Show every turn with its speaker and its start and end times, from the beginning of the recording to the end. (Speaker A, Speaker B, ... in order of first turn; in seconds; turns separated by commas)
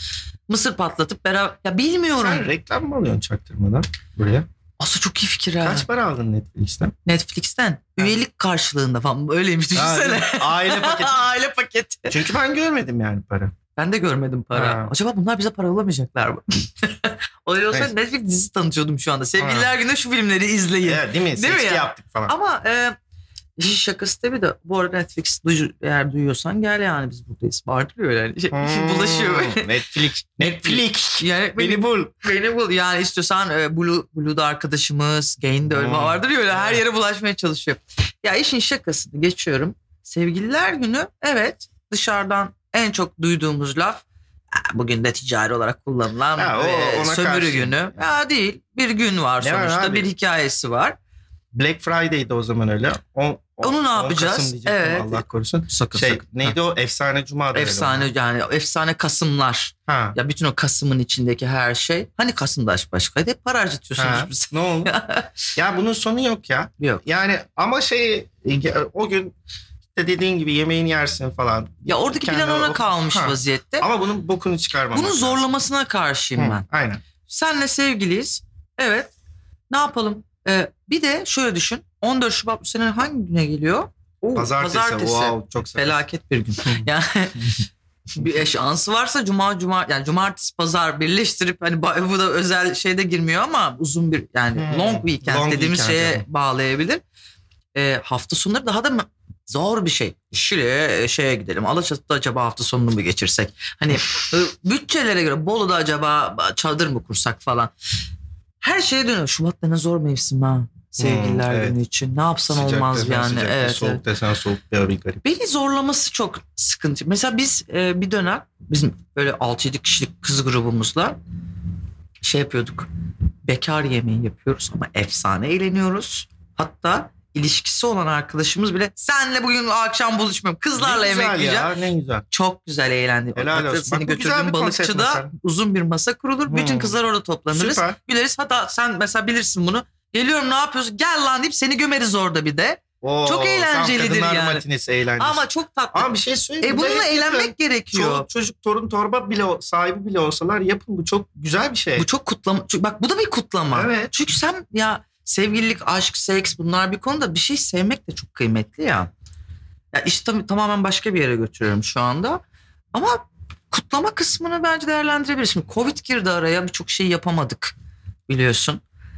Speaker A: 0.5-2.5, Speaker B: 2.2-4.5, Speaker A: 4.8-5.9, Speaker B: 5.6-7.0, Speaker A: 7.1-12.2, Speaker B: 9.8-11.3, Speaker B: 12.1-13.6, Speaker A: 13.8-23.0, Speaker B: 14.5-14.9, Speaker B: 19.4-19.7, Speaker B: 20.8-22.4, Speaker A: 23.6-29.7, Speaker B: 28.5-32.1, Speaker A: 30.4-51.0, Speaker B: 35.7-36.8, Speaker B: 46.4-48.0, Speaker B: 49.4-50.1, Speaker B: 51.5-58.1, Speaker A: 53.6-56.6, Speaker A: 57.5-65.3, Speaker B: 59.9-60.2, Speaker B: 64.0-64.9, Speaker B: 65.6-69.3, Speaker B: 70.0-75.4, Speaker A: 71.9-73.9, Speaker A: 74.9-76.7, Speaker B: 76.4-77.0, Speaker A: 77.2-79.1, Speaker A: 79.7-87.6, Speaker B: 84.3-86.0, Speaker A: 88.1-97.0, Speaker B: 94.5-96.2, Speaker A: 97.7-107.7, Speaker A: 108.6-114.0, Speaker B: 111.0-111.8, Speaker B: 112.5-115.2, Speaker A: 115.2-121.2, Speaker A: 122.2-122.9, Speaker A: 123.5-131.7, Speaker B: 130.8-132.3, Speaker A: 132.3-144.6, Speaker B: 133.4-135.3, Speaker B: 136.5-137.0, Speaker B: 137.5-138.0, Speaker B: 143.0-145.4, Speaker A: 145.2-148.3, Speaker B: 145.9-152.1, Speaker A: 152.0-159.1, Speaker B: 153.7-154.1, Speaker A: 159.9-162.4, Speaker A: 162.9-167.8, Speaker A: 168.3-168.8